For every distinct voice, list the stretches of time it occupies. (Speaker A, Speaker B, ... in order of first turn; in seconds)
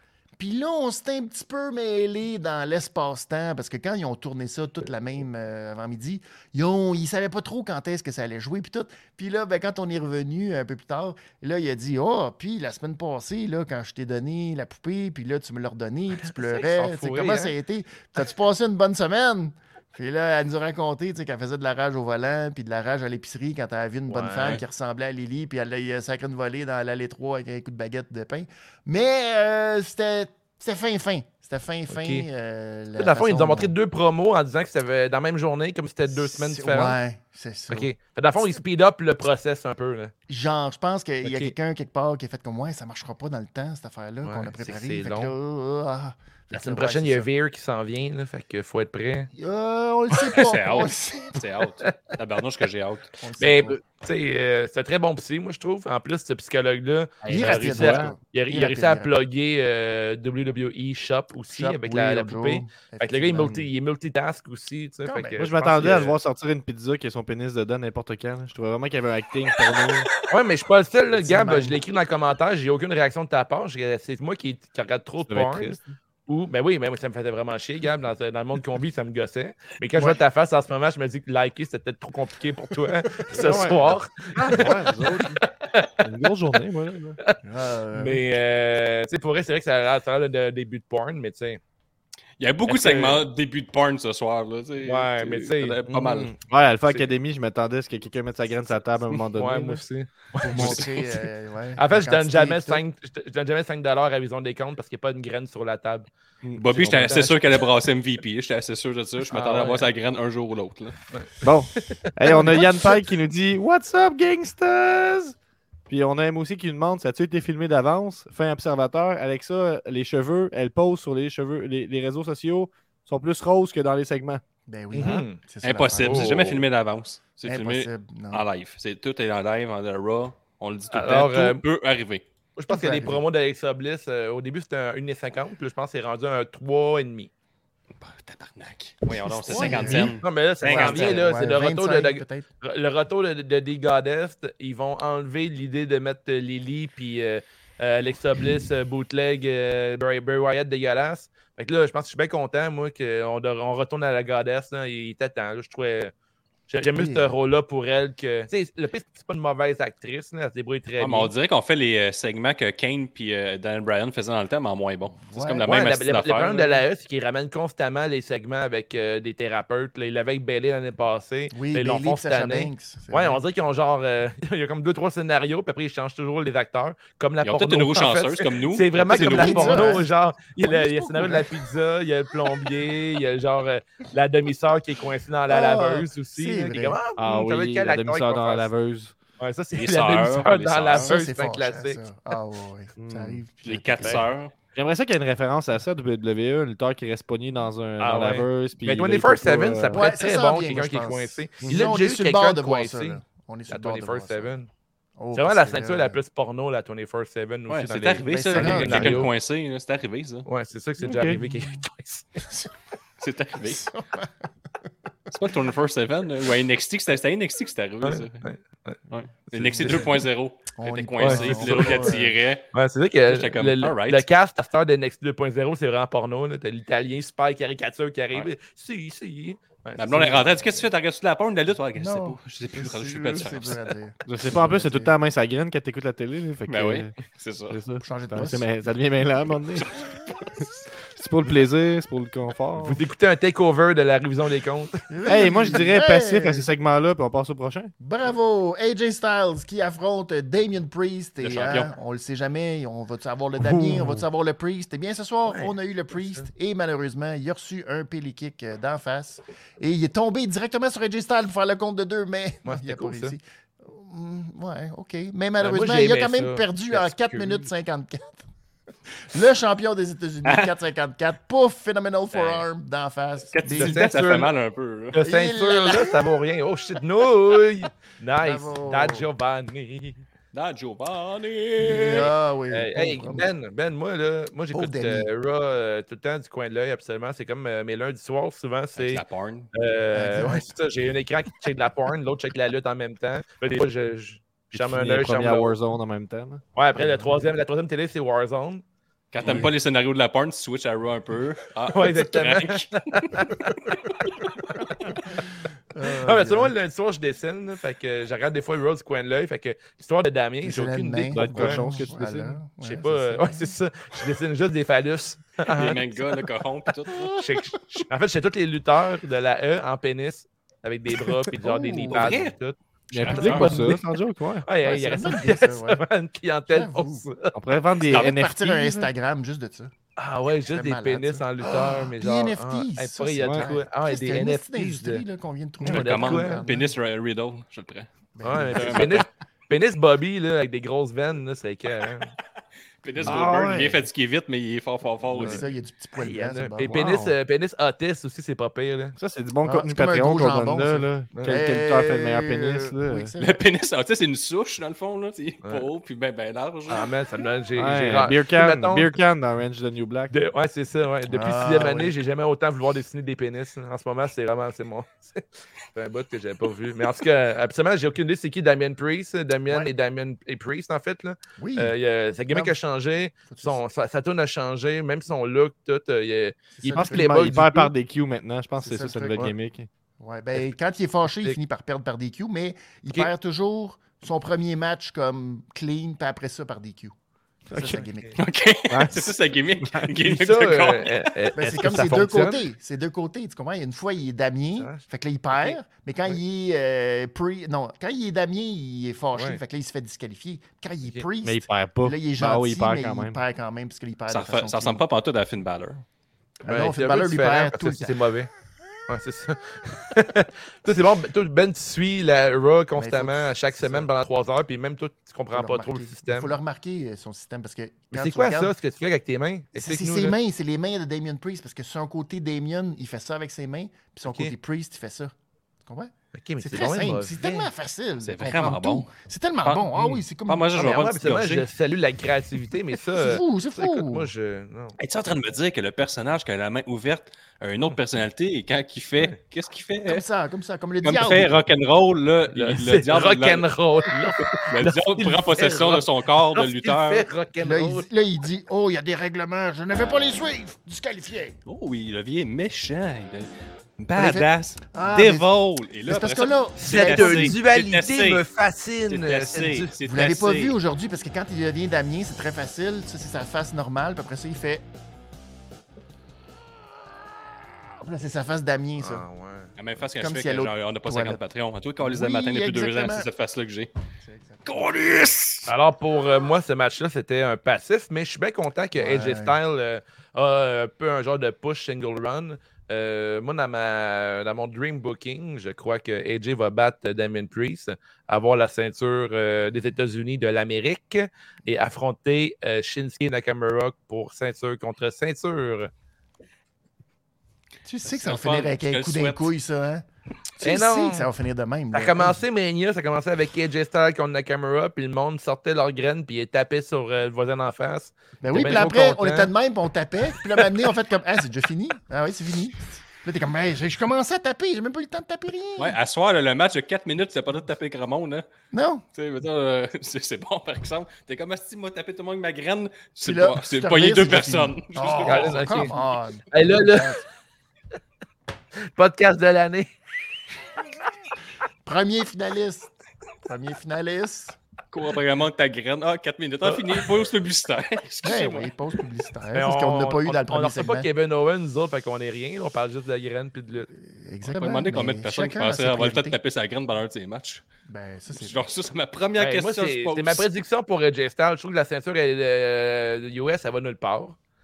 Speaker A: 0.4-33.7, 36.1-37.9, 40.3-47.3, 49.3-51.5, 53.2-53.8, 57.2-59.1, 61.5-63.6, 65.0-65.4, 71.2-71.8, 83.2-83.7, 87.4-88.2, 100.4-102.8, 124.7-126.6, 127.4-128.4, 132.7-133.2, 139.2-142.4, 156.9-157.3, 165.1-165.8, 171.5-173.4, 179.1-180.1, 180.6-181.6, 185.5-187.0, 190.9-194.2, 199.9-204.5, 205.2-206.2, 208.3-209.2, 211.5-211.8, 213.6-214.3, 219.8-220.1, 220.7-222.4, 231.9-235.1, 238.0-238.7, 245.1-246.7, 248.0-268.4, 269.2-274.1, 275.2-276.2, 278.4-279.3, 281.8-283.5, 284.7-285.3, 290.1-290.7, 297.0-297.3, 299.4-299.7, 305.9-306.7, 310.6-313.7, 317.1-317.7, 321.5-322.4, 323.2-324.0, 324.8-326.0, 326.7-327.3, 328.0-329.9, 330.7-336.9, 338.3-339.3, 343.2-343.6, 345.3-347.0, 349.6-353.6, 361.3-362.1, 371.6-371.9, 372.5-372.8, 373.5-373.8, 376.8-377.4, 378.8-379.5, 380.2-387.1, 387.7-388.4, 391.5-405.0, 406.6-408.2, 412.9-414.1, 415.5-418.7, 419.7-431.0, 433.1-434.3, 440.0-441.6, 447.6-451.6, 454.1-455.5, 456.1-457.6, 460.0-464.8, 468.0-469.2, 470.2-471.4, 472.0-473.3, 474.2-474.7, 478.9-479.6, 497.9-500.0, 500.6-502.4, 508.4-516.0, 518.7-519.0, 523.2-527.2, 531.8-532.9, 533.4-534.6, 538.2-541.1, 543.9-546.4, 547.9-548.6
Speaker B: 16.2-17.5, 24.1-24.6, 31.9-32.3, 33.0-37.0, 37.7-40.1, 41.2-41.5, 44.2-45.3, 46.5-49.3, 50.1-50.4, 53.4-66.2, 70.3-85.9, 87.9-91.6, 92.7-93.2, 94.8-95.9, 99.3-101.2, 101.8-106.1, 106.7-107.5, 109.3-109.9, 111.9-112.5, 124.9-125.4, 126.0-126.6, 130.9-131.6, 132.6-137.3, 139.4-156.1, 156.7-161.3, 165.6-188.7, 189.4-192.0, 198.0-204.7, 205.3-209.3, 210.4-212.4, 218.0-219.0, 219.6-220.2, 221.2-230.4, 242.8-245.1, 255.5-256.4, 262.6-263.3, 265.6-267.6, 273.7-274.5, 275.1-280.2, 282.7-295.7, 296.8-298.8, 299.4-299.7, 301.9-305.4, 306.1-312.1, 312.8-316.4, 317.2-324.0, 324.6-327.5, 330.2-335.2, 335.8-336.6, 338.4-342.3, 345.4-345.6, 346.1-349.1, 355.6-355.9, 356.9-359.1, 360.3-377.9, 387.8-388.4, 390.1-392.6, 394.8-395.8, 406.6-408.5, 409.1-416.5, 418.1-420.4, 424.2-424.5, 426.3-427.7, 430.8-435.0, 442.5-448.1, 456.8-459.9, 469.0-469.7, 475.7-495.9, 500.6-501.3, 501.9-509.5, 525.2-525.9, 526.5-527.2, 528.8-529.9, 536.6-537.0, 539.5-543.9, 549.4-554.4
Speaker C: 50.3-53.1, 92.4-96.3, 100.5-100.8, 106.5-110.9, 125.6-132.2, 138.0-141.3, 161.0-166.8, 177.4-180.0, 189.7-191.1, 193.6-194.5, 207.7-210.5, 213.2-213.9, 215.3-218.4, 219.1-222.7, 223.3-224.2, 230.0-233.9, 236.7-237.8, 239.8-240.1, 251.4-251.9, 270.4-270.7, 273.5-275.2, 280.5-282.3, 288.9-289.7, 299.3-304.1, 315.7-317.3, 322.1-322.5, 323.3-323.7, 335.8-338.1, 338.7-339.3, 343.0-345.7, 353.4-357.1, 388.4-391.2, 404.3-406.0, 428.2-429.1, 429.6-431.7, 435.0-440.2, 441.0-443.7, 444.4-447.2, 451.6-458.4, 459.1-460.8, 469.8-473.9, 474.6-475.7, 498.0-499.5, 515.8-518.5, 519.1-526.0, 534.9-538.7, 544.5-547.6, 548.4-550.5
Speaker D: 57.2-58.1, 65.4-70.1, 75.3-75.9, 83.3-85.4, 86.0-87.2, 95.9-99.8, 111.4-115.3, 115.9-124.4, 187.2-189.1, 193.0-193.4, 194.7-200.1, 211.0-211.5, 234.2-237.1, 237.7-239.9, 241.1-243.0, 245.3-247.9, 253.6-254.2, 294.7-296.6, 311.3-312.6, 323.1-324.6, 327.5-329.1, 333.4-333.7, 343.2-344.0, 346.8-347.3, 349.2-353.3, 357.8-360.3, 376.9-379.9, 388.9-389.3, 401.4-403.4